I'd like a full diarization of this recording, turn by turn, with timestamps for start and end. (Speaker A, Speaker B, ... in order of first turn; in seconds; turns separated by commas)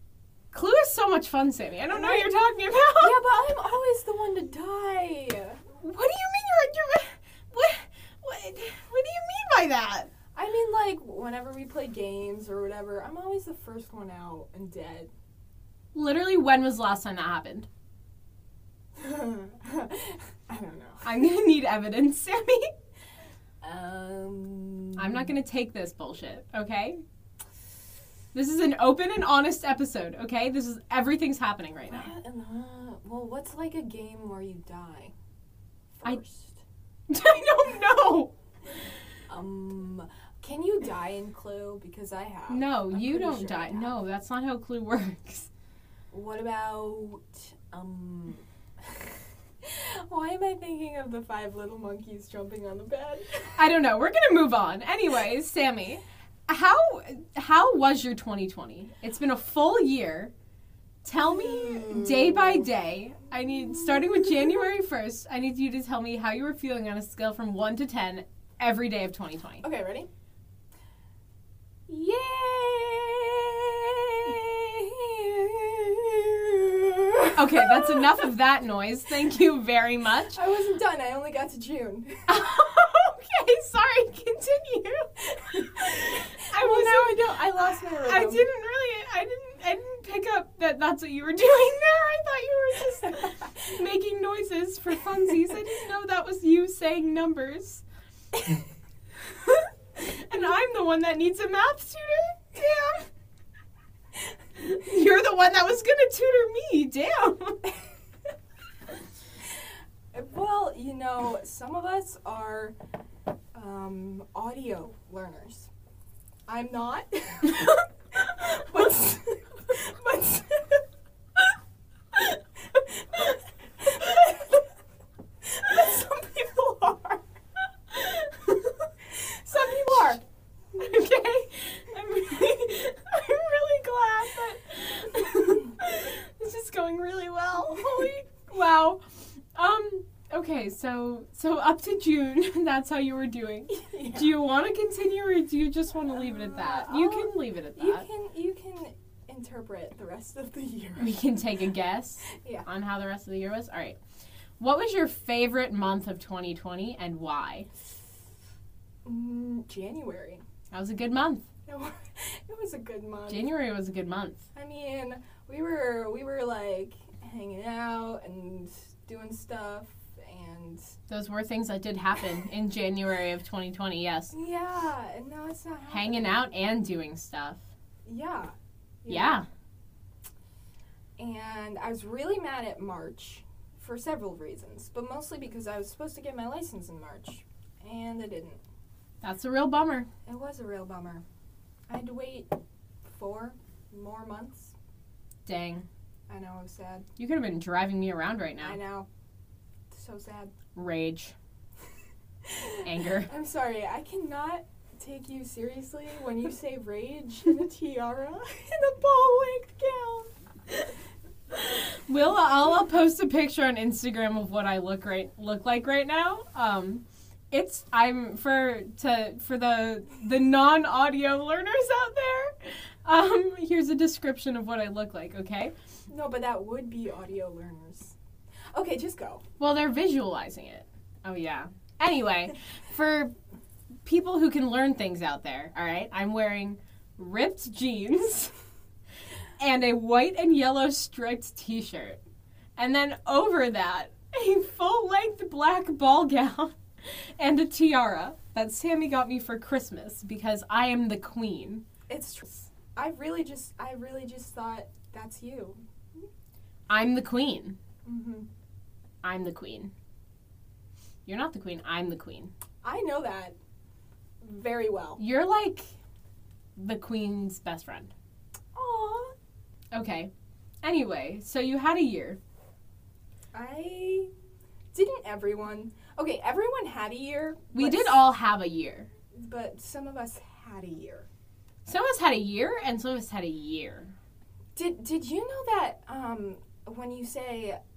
Speaker A: 0.5-3.3, Speaker B: 1.9-2.3, Speaker B: 3.0-5.6, Speaker A: 5.8-10.1, Speaker B: 10.3-15.1, Speaker A: 15.9-17.7, Speaker B: 19.0-21.1, Speaker A: 21.0-22.7, Speaker B: 23.6-25.3, Speaker A: 24.9-27.0, Speaker A: 28.3-32.1, Speaker B: 31.9-35.1, Speaker B: 36.0-36.6, Speaker A: 37.1-38.3, Speaker B: 39.3-44.0, Speaker A: 42.5-45.5, Speaker B: 46.1-53.6, Speaker A: 53.6-60.3, Speaker A: 61.0-69.6, Speaker B: 61.2-62.7, Speaker B: 63.8-64.7, Speaker B: 69.6-70.1, Speaker B: 71.9-78.2, Speaker A: 77.3-80.4, Speaker B: 80.3-82.3, Speaker A: 82.3-87.2, Speaker B: 85.3-88.5, Speaker A: 88.0-97.8, Speaker A: 99.4-102.6, Speaker B: 102.6-103.0, Speaker A: 104.6-107.6, Speaker B: 110.1-112.8, Speaker B: 113.5-115.7, Speaker B: 116.5-120.8, Speaker B: 122.2-124.6, Speaker B: 125.4-127.2, Speaker B: 128.3-130.2, Speaker A: 130.8-139.0, Speaker B: 137.6-138.2, Speaker A: 139.6-148.1, Speaker B: 143.7-144.3, Speaker B: 146.1-151.2, Speaker A: 151.0-154.0, Speaker B: 152.3-152.7, Speaker A: 154.6-157.7, Speaker B: 159.1-160.4, Speaker A: 160.7-161.5, Speaker B: 161.7-163.5, Speaker A: 163.3-164.4, Speaker B: 164.6-170.9, Speaker A: 171.1-174.3, Speaker B: 174.3-176.5, Speaker A: 175.9-177.7, Speaker B: 178.1-179.4, Speaker A: 179.1-179.5, Speaker B: 181.2-188.6, Speaker A: 189.2-190.1, Speaker B: 190.3-191.2, Speaker B: 191.9-194.7, Speaker A: 195.4-195.9, Speaker B: 196.3-197.1, Speaker A: 197.2-198.8, Speaker B: 198.6-199.1, Speaker B: 199.9-200.5, Speaker A: 200.8-201.3, Speaker B: 202.4-210.9, Speaker A: 202.8-203.3, Speaker A: 211.9-225.7, Speaker B: 226.1-228.2, Speaker B: 228.7-229.4, Speaker A: 229.6-233.3, Speaker A: 234.1-238.5, Speaker A: 239.6-242.2, Speaker A: 242.8-251.8, Speaker B: 252.1-255.8, Speaker A: 256.9-257.8, Speaker B: 258.1-258.5, Speaker A: 259.2-259.9, Speaker A: 261.3-262.5, Speaker B: 262.8-263.6, Speaker B: 264.4-265.2, Speaker A: 265.2-265.9, Speaker A: 266.8-268.1, Speaker B: 268.7-269.3, Speaker A: 269.9-270.3, Speaker A: 270.8-272.4, Speaker B: 273.5-274.3, Speaker B: 274.9-278.2, Speaker A: 277.7-279.1, Speaker B: 279.4-281.3, Speaker A: 281.9-284.1, Speaker B: 284.8-287.8